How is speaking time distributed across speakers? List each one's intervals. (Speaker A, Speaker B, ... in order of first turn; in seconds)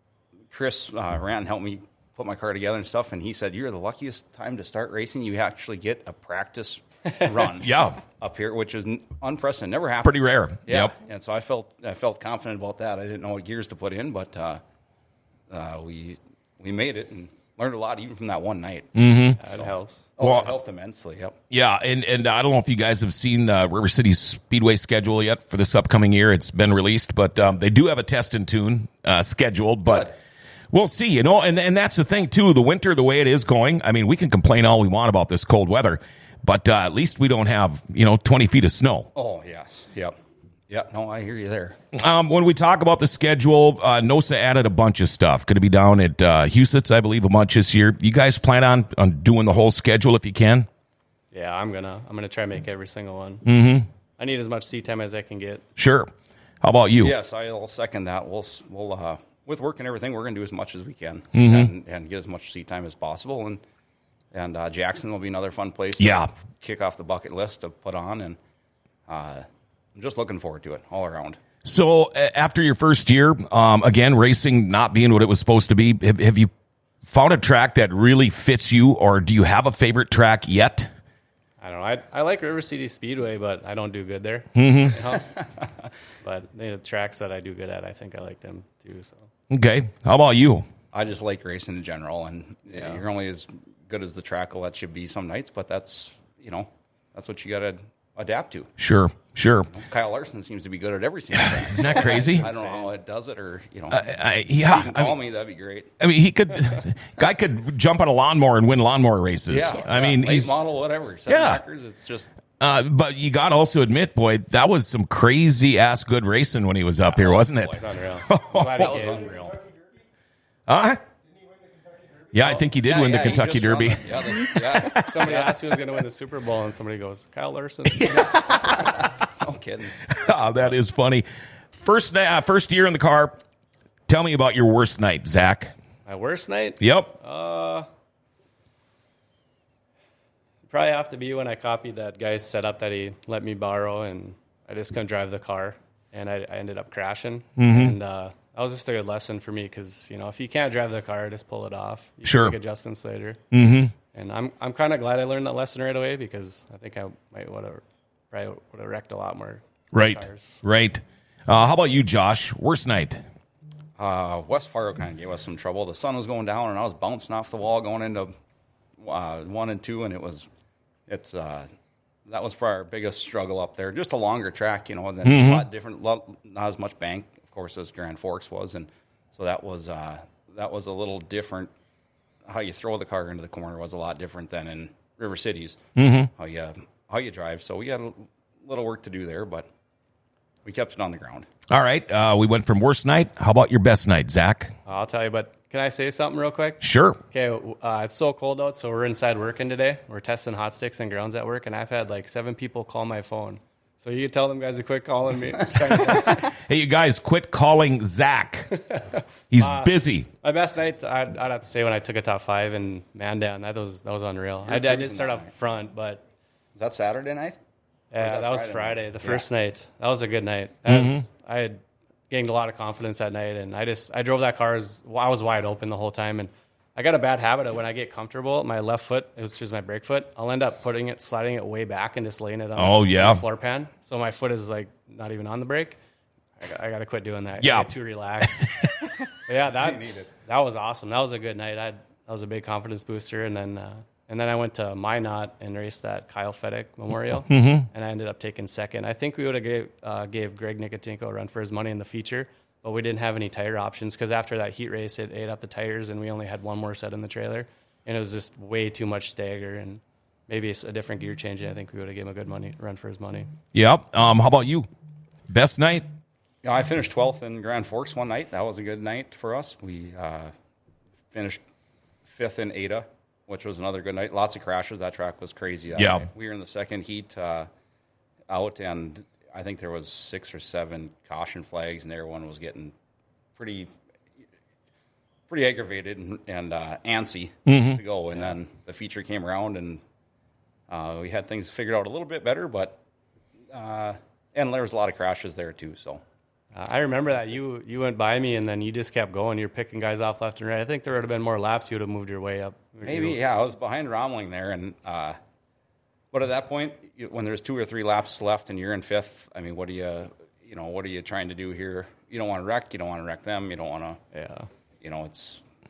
Speaker A: 0.5-14.6, 15.5-18.9, 19.5-21.4, 29.9-30.1, 39.1-40.1, 40.7-41.8, 57.0-63.6, 64.3-68.4, 69.1-71.4, 90.9-98.7, 99.7-104.1, 104.6-105.9, 109.5-112.3, 117.1-117.8, 118.7-119.6, 122.8-125.6, 128.1-130.0, 164.0-168.3, 169.0-170.5, 171.1-171.7, 172.3-181.7, 182.5-185.8, 186.4-189.7, 190.7-191.5, 214.7-215.5, 216.8-217.6, 218.2-219.4, 239.8-240.3, 266.6-270.5, 271.3-271.6, 272.3-277.7, 278.5-282.9, 283.6-283.9, 285.5-290.0, 290.9-293.0, 293.7-296.2, 303.1-305.4, 306.3-314.2, 315.0-315.6
Speaker B: 7.6-8.0, 10.0-10.9, 18.9-19.4, 20.2-20.5, 21.5-30.1, 30.7-39.1, 41.9-50.7, 53.5-53.9, 55.8-56.1, 56.6-57.1, 61.3-61.7, 66.0-66.3, 71.7-76.5, 77.1-80.9, 84.5-85.0, 89.5-90.7, 98.8-99.7, 101.3-102.5, 103.9-105.2, 106.0-110.5, 111.3-111.6, 112.6-119.0, 120.7-121.0, 122.3-125.2, 128.0-128.9, 130.1-131.3, 131.8-133.4, 134.1-135.7, 136.8-137.2, 147.6-148.0, 152.2-152.6, 153.5-153.9, 159.9-163.2, 175.2-175.7, 186.0-186.3, 191.7-194.7, 196.8-197.2, 206.4-208.8, 209.5-210.3, 220.9-221.2, 232.8-233.4, 237.6-237.9, 238.4-238.9, 247.5-247.9, 263.7-264.9, 265.5-266.1, 276.0-276.3, 287.7-288.0
Speaker C: 19.4-20.1, 51.3-53.4, 54.2-55.6, 81.6-85.3, 86.2-89.3, 101.9-102.9, 117.8-119.3, 124.9-128.3, 136.1-137.9, 140.7-153.4, 154.1-160.6, 194.9-206.5, 208.9-216.2, 218.1-221.8, 222.3-236.0, 236.6-238.7, 239.5-263.5, 296.7-303.4, 314.3-314.7